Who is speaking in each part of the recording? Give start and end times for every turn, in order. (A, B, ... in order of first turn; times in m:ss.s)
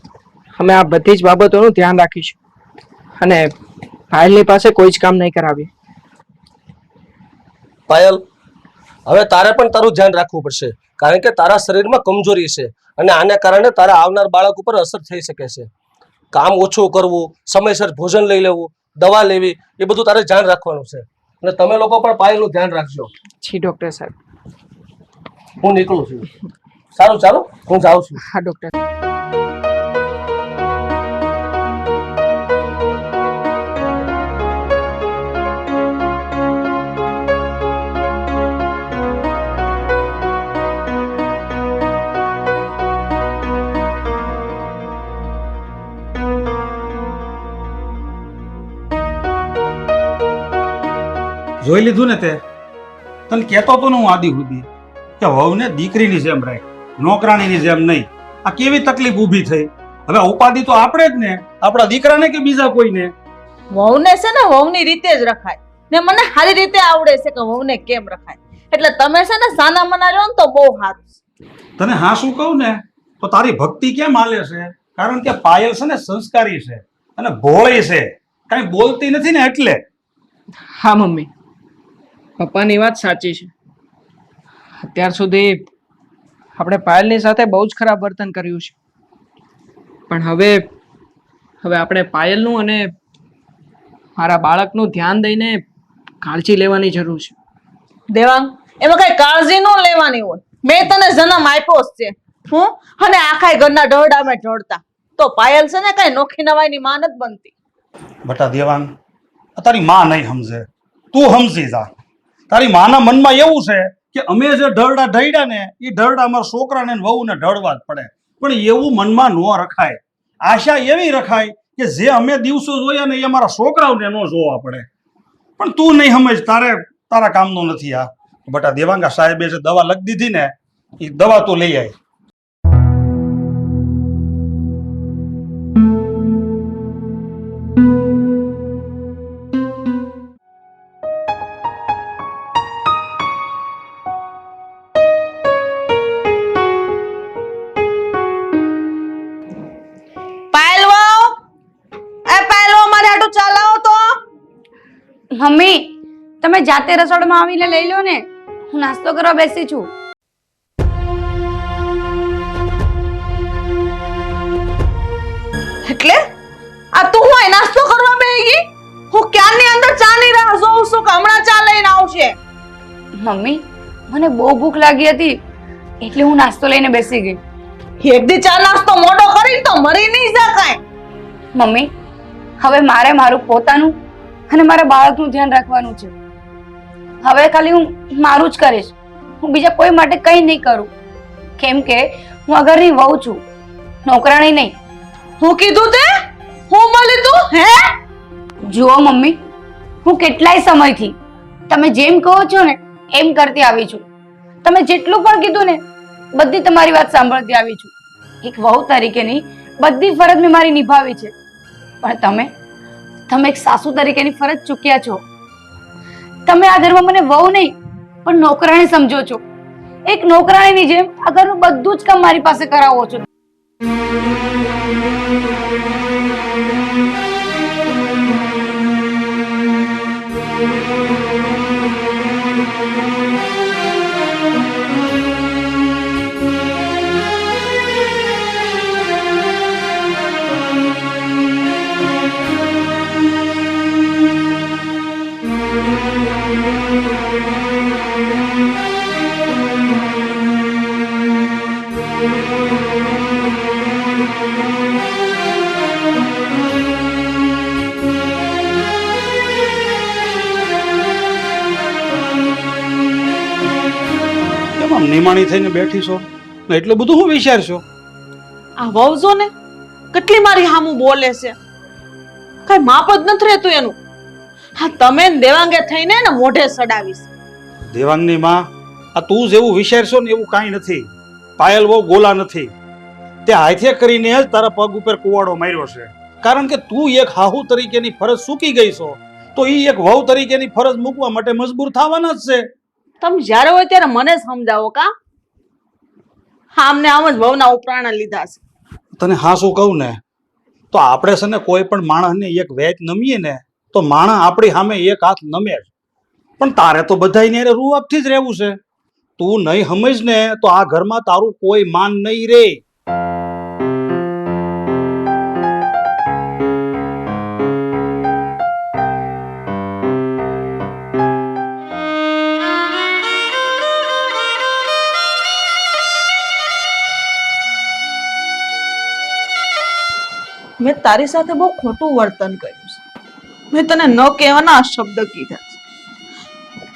0:00.6-0:02.4 A
0:03.2-0:03.5 A
0:04.1-0:05.7 A
0:07.9-0:08.2 B
0:09.0-0:15.7 B
0:16.3-0:23.1 B
0:23.4-0:24.1 A
0:25.6-0:26.3 B
0:26.9-0:28.2 B
0:28.3-0:28.7 A
0:51.6-0:52.4 C
0:53.3-0:54.7 C
0:55.2-1:03.1 C
1:03.7-1:11.1 D
1:11.8-1:19.8 C
1:20.7-1:21.3 A
1:22.4-1:23.5 A
1:24.8-1:25.6 A
1:26.6-1:28.7 A
1:30.1-1:30.6 A
1:31.6-1:32.9 A
1:34.2-1:35.6 A
1:36.2-1:37.3 A
1:38.1-1:47.5 D
1:48.2-1:48.9 C
1:49.6-1:51.9 C
1:52.5-2:04.9 C
2:05.6-2:11.9 C
2:30.5-2:31.4 D
2:32.3-2:34.2 D
2:35.3-2:39.9 E
2:45.8-2:46.2 D
2:46.9-2:52.4 D
2:53.2-2:55.3 E
2:56.0-2:57.4 E
2:58.0-3:00.8 D
3:01.5-3:01.9 E
3:02.6-3:04.0 E
3:04.5-3:06.1 E
3:07.2-3:10.9 E
3:11.6-3:13.4 E
3:14.0-3:14.8 E
3:15.4-3:16.1 D
3:16.7-3:17.9 D
3:18.7-3:19.4 E
3:20.0-3:21.2 E
3:21.7-3:24.0 E
3:24.6-3:25.8 E
3:26.3-3:31.3 E
3:32.0-3:32.5 E
3:33.3-3:35.2 E
3:36.4-3:39.4 E
3:40.1-3:43.2 E
4:24.8-4:27.8 C
4:28.8-4:29.5 D
4:30.1-4:31.6 D
4:32.6-4:34.0 D
4:34.8-4:37.3 D
4:37.9-4:42.7 C
4:43.4-4:52.6 C
4:53.2-4:55.1 D
4:56.8-4:58.6 D
4:59.2-5:00.2 C
5:00.9-5:05.9 C
5:06.6-5:08.8 C
5:09.4-5:12.8 C
5:30.8-5:33.0 D
5:33.7-5:35.8 D